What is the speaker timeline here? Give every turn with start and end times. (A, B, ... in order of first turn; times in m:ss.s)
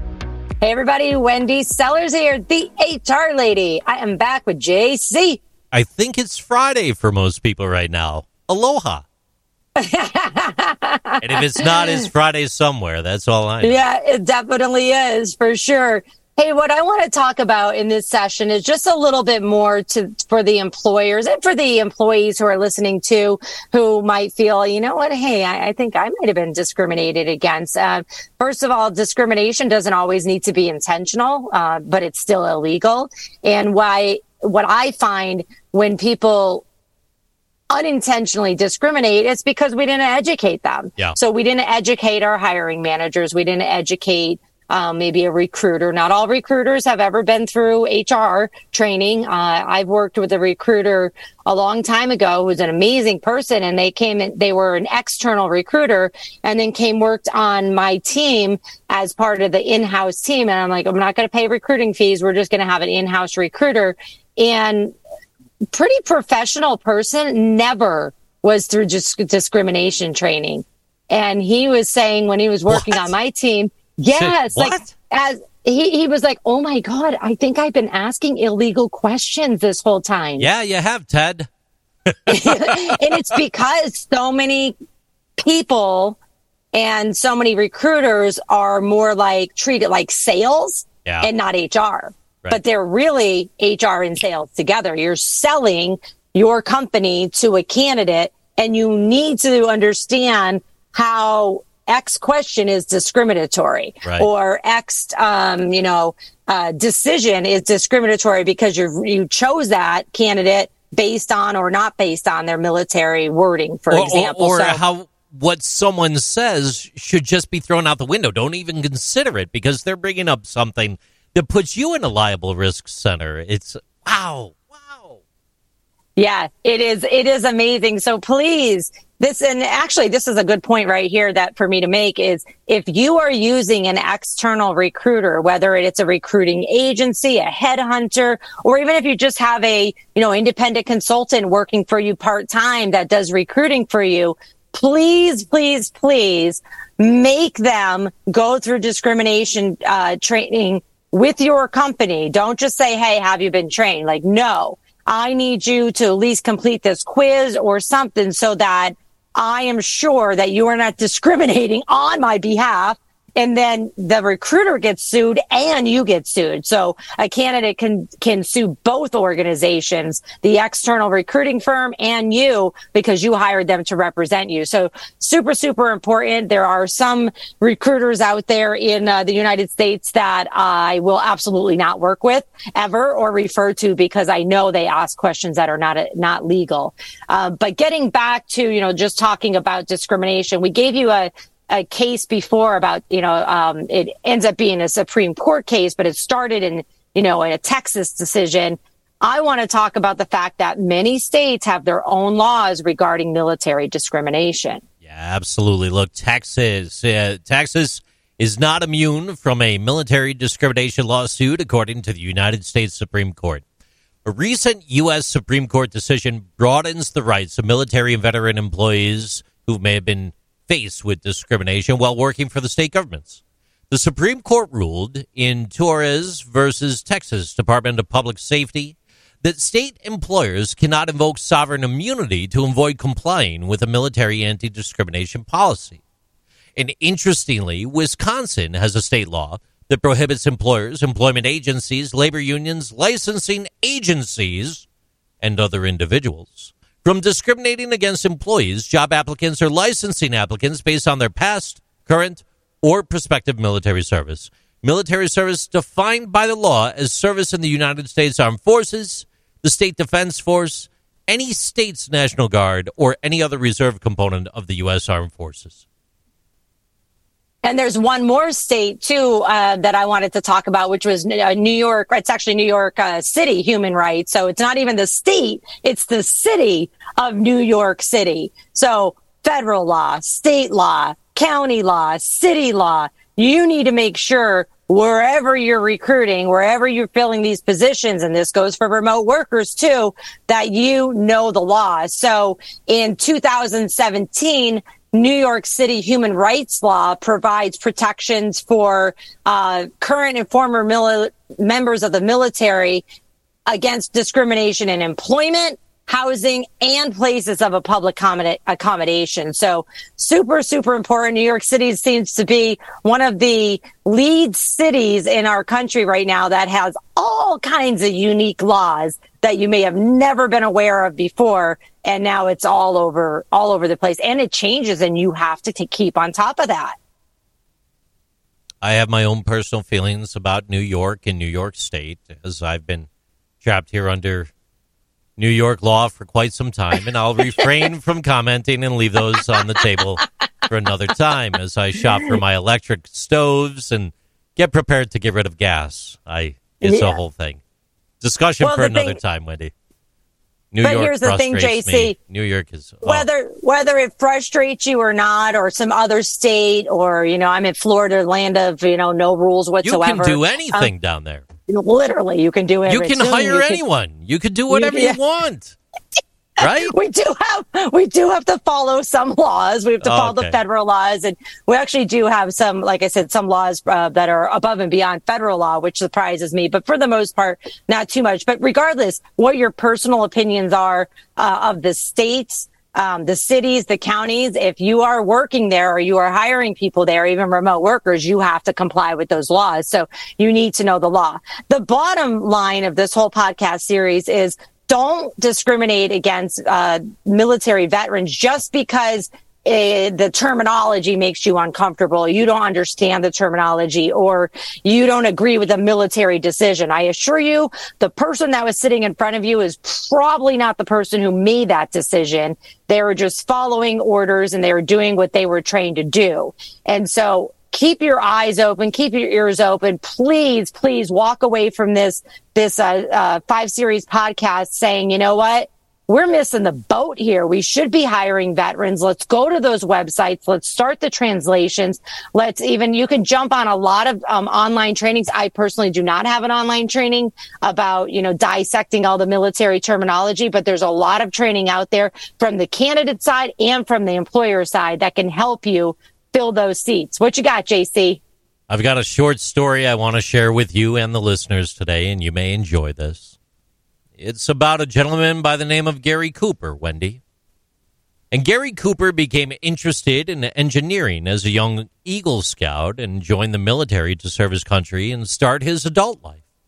0:00.6-0:05.4 A
0:05.7-0:09.0 B
0:09.8-0:12.1 A
0:11.2-0:13.8 B
0:13.6-0:36.6 A
0:37.7-1:05.0 A
1:05.7-1:20.5 A
1:12.7-1:13.1 B
1:14.1-1:14.9 B
1:20.4-1:21.5 B
1:22.1-1:23.2 B
1:22.3-1:24.7 A
1:25.4-1:26.2 A
1:26.7-1:54.8 A
1:53.9-2:05.2 B
2:06.2-3:24.8 A
3:25.0-3:33.6 B
3:34.2-3:56.0 B
3:56.8-4:04.8 B
4:05.4-4:25.8 B
4:27.6-5:03.0 A
5:03.7-5:26.9 A
5:28.8-5:33.1 B
5:33.6-5:34.5 B
5:35.4-5:47.6 B
5:46.8-5:47.2 A
5:48.2-5:49.7 B
5:48.6-5:49.2 A
5:50.7-5:53.3 B
5:50.8-5:52.2 A
5:53.0-6:00.9 A
5:59.8-6:01.4 B
6:01.7-6:03.8 A
6:02.8-6:05.8 B
6:04.7-6:05.2 A
6:06.6-6:06.9 B
6:06.6-7:28.2 A
6:10.0-6:10.6 B
7:28.7-7:33.3 B
7:34.2-7:37.2 B
7:38.3-7:46.4 B